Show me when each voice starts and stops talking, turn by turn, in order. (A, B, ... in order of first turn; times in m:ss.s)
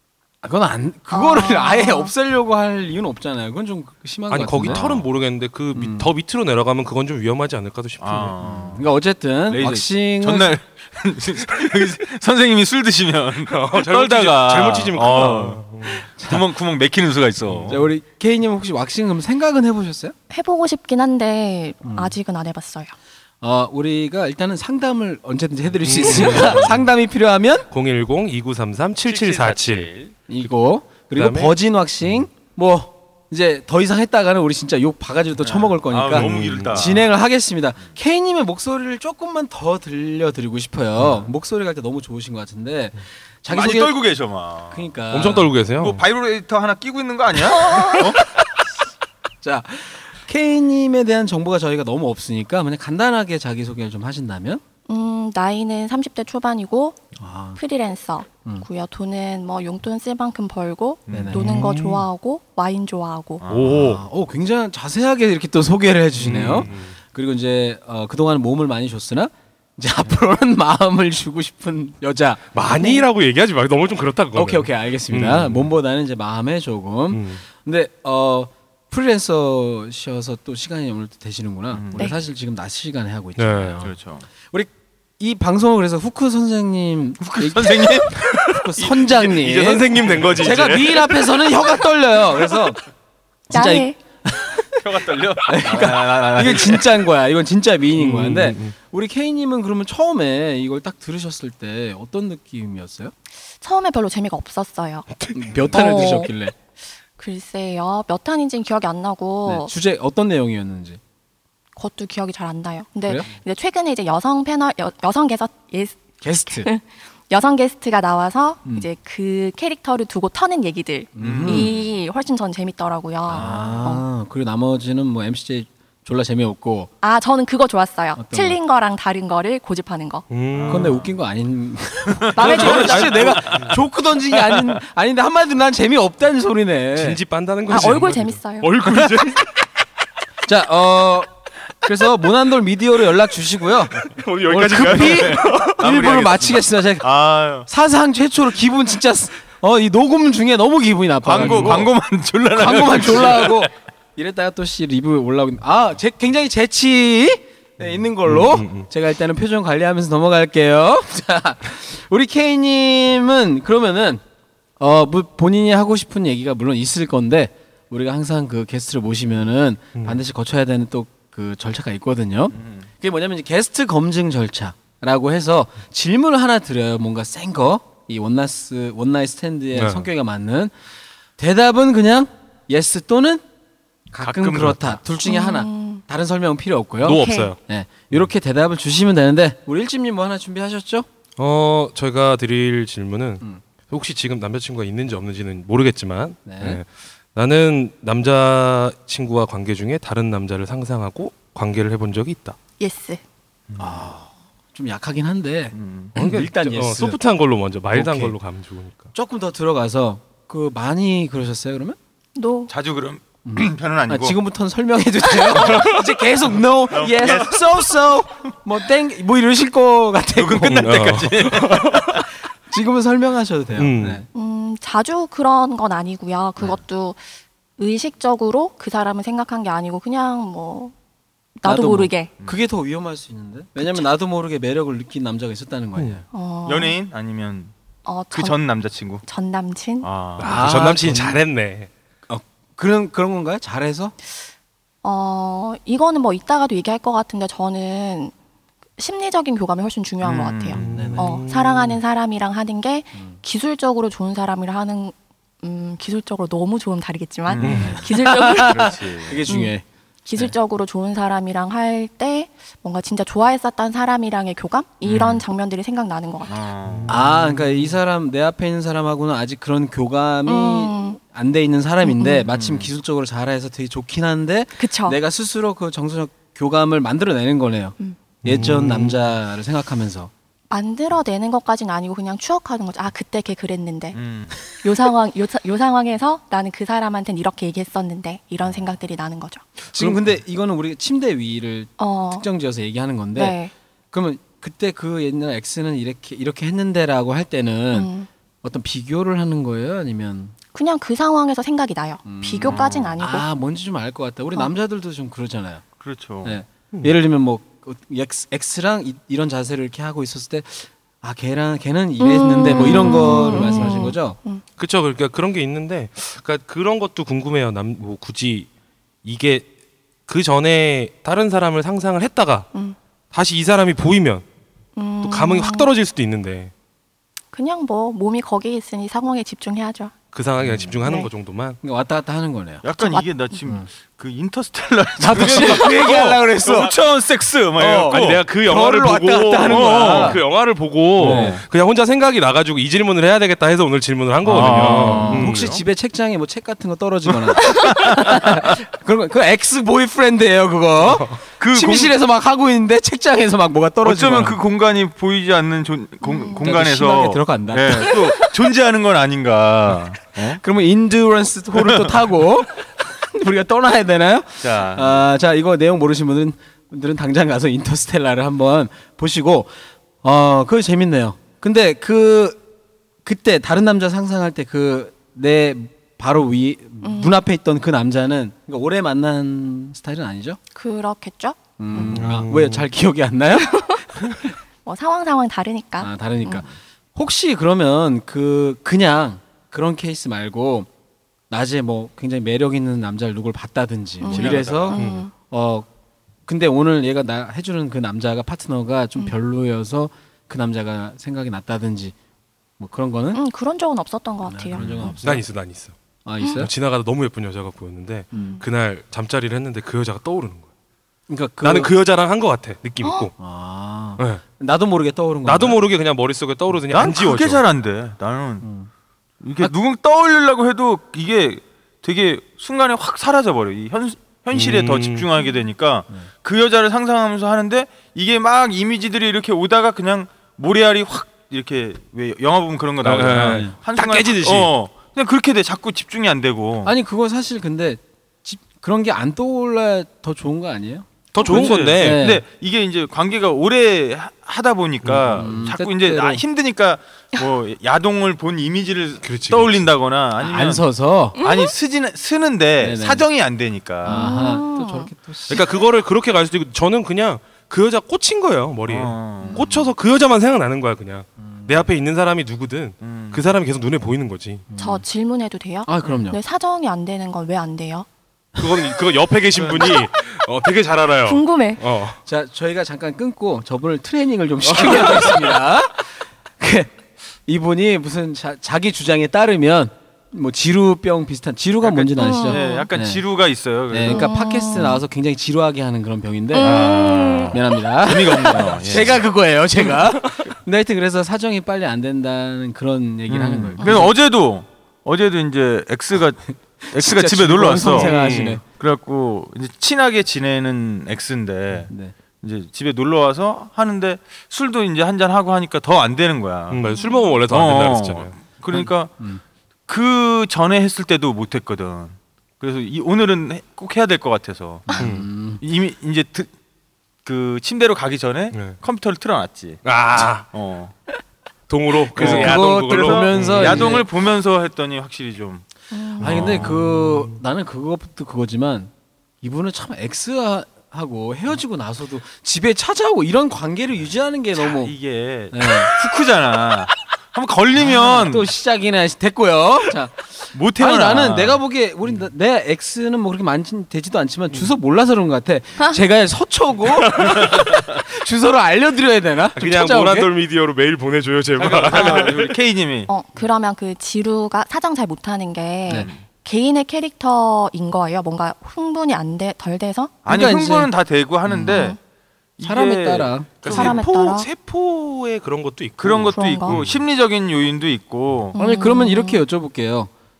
0:00.4-0:04.8 A
0:01.1-0:02.1 B
0:04.3-0:08.4 C
0:04.7-0:05.0 D
0:05.7-0:06.1 A
0:08.0-0:08.9 D
0:08.4-0:10.5 A
0:09.5-0:17.8 D
0:13.5-0:16.1 C
0:17.7-0:20.1 A
0:20.3-0:22.9 B
0:21.8-0:22.2 A
0:23.4-0:27.7 A
0:25.8-0:26.8 C
0:26.1-0:26.5 D
0:27.7-0:29.9 C
0:29.0-0:30.1 D
0:30.3-0:44.0 A
0:31.1-0:31.6 C
0:35.4-0:37.0 D
0:36.1-0:37.0 C
0:43.5-0:44.9 D
0:44.7-0:45.5 A
0:45.1-0:46.0 C
0:45.8-0:48.2 D
0:47.5-0:48.0 B
0:49.4-0:54.6 A
0:54.9-0:57.0 B
0:57.2-0:57.6 A
0:57.6-1:03.4 B
1:01.1-1:01.4 D
1:01.1-1:01.4 A
1:01.4-1:02.1 C
1:03.4-1:03.9 D
1:03.5-1:04.0 C
1:03.6-1:12.5 A
1:06.2-1:07.0 C
1:12.5-1:15.7 C
1:12.6-1:13.0 B
1:14.3-1:23.9 A
1:17.1-1:17.4 C
1:21.7-1:22.1 D
1:23.4-1:23.9 C
1:23.8-1:24.2 D
1:24.5-1:32.8 A
1:27.2-1:28.2 D
1:28.2-1:31.4 C
1:33.5-1:34.0 B
1:33.5-1:34.8 A
1:34.8-1:37.1 D
1:35.4-1:43.1 A
1:37.9-1:38.7 C
1:43.6-1:45.1 B
1:45.3-1:46.5 A
1:45.7-1:46.3 B
1:47.2-1:49.7 B
1:49.4-1:51.0 A
1:51.8-2:04.0 B
1:56.2-1:56.7 A
2:01.2-2:01.7 A
2:01.2-2:01.9 D
2:03.3-2:03.7 D
2:03.3-2:06.9 A
2:07.0-2:10.2 B
2:08.2-2:08.6 A
2:10.3-2:11.0 C
2:10.5-2:11.1 D
2:10.7-2:17.2 A
2:12.1-2:13.8 D
2:12.3-2:13.1 B
2:12.4-2:13.7 C
2:14.3-2:14.8 D
2:17.0-2:19.5 C
2:17.7-2:18.7 B
2:18.9-2:19.2 A
2:20.4-2:21.3 A
2:21.8-2:27.0 A
2:24.0-2:25.8 C
2:24.7-2:27.7 D
2:27.6-2:31.9 A
2:31.2-2:33.7 D
2:31.3-2:31.8 C
2:32.5-2:44.2 A
2:38.2-2:38.9 C
2:44.8-3:00.7 A
2:52.5-2:52.8 D
2:59.7-3:00.1 C
3:01.4-3:03.4 A
3:04.1-3:11.0 A
3:04.2-3:05.0 D
3:05.2-3:06.0 B
3:07.0-3:07.5 B
3:07.1-3:07.4 C
3:07.2-3:07.5 D
3:11.4-3:22.6 C
3:16.4-3:16.8 A
3:22.8-3:23.2 B
3:23.7-3:24.1 D
3:23.8-3:27.2 A
3:25.7-3:26.1 D
3:26.2-3:29.1 C
3:27.9-3:28.4 A
3:29.1-3:32.0 A
3:32.4-3:32.7 B
3:32.7-3:34.4 D
3:33.4-3:40.9 A
3:36.9-3:37.9 D
3:40.4-3:42.2 D
3:40.8-3:42.2 C
3:42.7-3:44.2 A
3:43.8-3:44.2 C
3:44.3-3:47.2 B
3:47.8-3:50.9 B
3:51.6-3:52.3 B
3:51.6-3:56.2 A
3:53.8-3:54.0 B
3:56.3-3:56.9 B
3:56.6-3:57.7 D
3:58.0-3:58.6 B
3:58.3-3:59.2 D
3:59.2-4:00.1 B
4:00.0-4:00.6 D
4:00.4-4:01.9 C
4:00.4-4:01.4 A
4:02.3-4:04.1 A
4:05.0-4:08.3 B
4:09.0-4:19.7 B
4:10.2-4:10.8 D
4:10.7-4:12.0 C
4:10.8-4:11.4 A
4:17.5-4:19.4 D
4:17.6-4:17.9 C
4:17.8-4:19.8 A
4:20.2-4:26.6 B
4:25.0-4:25.4 D
4:26.4-4:27.3 D
4:27.1-4:40.3 A
4:30.4-4:31.2 B
4:32.0-4:32.5 B
4:32.5-4:32.9 D
4:34.8-4:35.2 B
4:38.4-4:39.2 C
4:40.7-4:44.2 B
4:44.1-4:44.6 D
4:44.8-4:49.6 B
4:49.9-4:53.5 A
4:50.0-4:50.2 C
4:52.0-4:52.4 B
4:53.3-4:53.7 B
4:54.1-4:58.1 A
4:57.9-4:58.3 B
4:58.6-5:00.5 A
5:00.7-5:03.5 B
5:02.2-5:05.8 A
5:02.6-5:03.2 D
5:06.0-5:06.6 D
5:06.4-5:14.4 A
5:12.2-5:14.6 B
5:12.7-5:14.1 C
5:14.8-5:18.7 C
5:19.2-5:19.7 C
5:20.3-5:22.7 C
5:23.3-5:24.4 C
5:25.0-5:25.9 B
5:25.2-5:26.7 C
5:27.5-5:30.1 B
5:30.3-5:31.8 C
5:30.6-5:30.9 D
5:31.0-5:31.3 B
5:31.8-5:32.8 A
5:32.8-5:38.4 D
5:33.0-5:33.4 B
5:35.2-5:36.9 A
5:35.4-5:35.8 C
5:37.8-5:40.4 A
5:37.9-5:45.7 C
5:39.6-5:40.4 D
5:41.2-5:41.6 D
5:41.2-5:41.6 A
5:44.4-5:45.8 D
5:44.5-5:54.6 A
5:47.6-5:48.7 D
5:51.6-5:52.1 D
5:54.0-6:00.6 D
5:56.2-5:56.7 B
5:56.6-5:58.2 A
6:00.6-6:09.7 A
6:01.8-6:02.1 D
6:04.6-6:05.2 D
6:10.2-6:12.6 A
6:13.2-6:20.6 A
6:17.0-6:17.4 B
6:20.7-6:22.2 B
6:21.8-6:23.8 A
6:22.1-6:22.9 C
6:23.5-6:24.0 B
6:24.8-6:26.6 B
6:26.0-6:30.9 A
6:31.5-6:35.0 A
6:34.2-6:35.3 B
6:34.3-6:35.0 D
6:34.9-6:35.3 C
6:35.5-6:35.9 A
6:36.5-6:42.1 A
6:42.8-6:43.4 A
6:43.3-6:44.8 B
6:44.4-6:45.4 A
6:44.8-6:45.9 C
6:44.8-6:45.1 D
6:46.2-6:46.7 A
6:46.5-6:50.6 C
6:48.3-6:48.6 B
6:51.3-6:51.9 A
6:51.6-6:53.3 C
6:53.0-6:53.3 B
6:53.4-6:55.8 A
6:55.4-6:57.6 C
6:56.9-6:58.6 D
6:58.6-6:58.9 A
6:59.4-7:16.9 D
7:04.5-7:05.3 C
7:13.0-7:14.7 C
7:13.5-7:13.7 A
7:16.8-7:22.4 A
7:21.3-7:22.2 C
7:21.4-7:30.8 D
7:25.1-7:26.4 A
7:29.2-7:29.9 C
7:30.4-7:31.4 A
7:31.3-7:34.4 D
7:31.4-7:31.7 B
7:32.8-7:33.2 A
7:34.0-7:35.6 A
7:34.1-7:35.1 B
7:35.5-7:44.6 C
7:38.8-7:39.7 D
7:39.4-7:39.9 A
7:41.4-7:41.7 A
7:43.0-7:43.4 D
7:44.7-7:45.0 A
7:44.8-7:48.0 B
7:45.8-7:46.4 A
7:48.6-7:52.2 C
7:49.5-7:50.0 D
7:51.2-7:51.8 B
7:52.2-7:56.9 A
7:54.7-7:55.4 C
7:57.4-8:03.2 A
8:01.8-8:04.3 D
8:02.2-8:02.9 B
8:03.9-8:06.8 A
8:04.0-8:05.0 B
8:06.5-8:07.7 B
8:06.6-8:09.2 D
8:07.5-8:14.1 A
8:13.3-8:18.1 D
8:16.8-8:18.6 A
8:17.8-8:18.6 C
8:18.8-8:26.9 D
8:21.9-8:22.1 A
8:26.7-8:28.3 C
8:26.9-8:27.3 B
8:27.5-8:29.1 D
8:28.7-8:29.4 A
8:29.9-8:35.0 D
8:34.9-8:35.6 A
8:35.0-8:35.2 C
8:35.6-8:36.5 D
8:37.2-8:40.9 D
8:38.5-8:38.8 C
8:39.8-8:40.4 C
8:41.7-8:44.0 C
8:42.1-8:44.1 A
8:42.1-8:45.6 D
8:45.9-8:46.4 B
8:46.2-8:46.7 D
8:46.2-8:48.9 A
8:46.2-8:47.4 C
8:49.4-8:54.9 A
8:54.6-8:58.5 D
8:55.5-8:55.9 A
8:57.8-9:10.3 A
9:00.5-9:01.6 D
9:07.2-9:07.8 C
9:09.6-9:12.5 C
9:11.6-9:13.1 D
9:13.1-9:20.2 B
9:15.9-9:16.2 D
9:20.2-9:22.0 D
9:20.3-9:20.9 A
9:21.4-9:21.8 A
9:21.7-9:22.0 B
9:22.6-9:24.0 D
9:22.6-9:23.7 A
9:23.6-9:27.0 C
9:23.7-9:24.5 B
9:26.0-9:28.6 D
9:26.3-9:26.8 B
9:28.5-9:29.4 B
9:28.6-9:30.1 A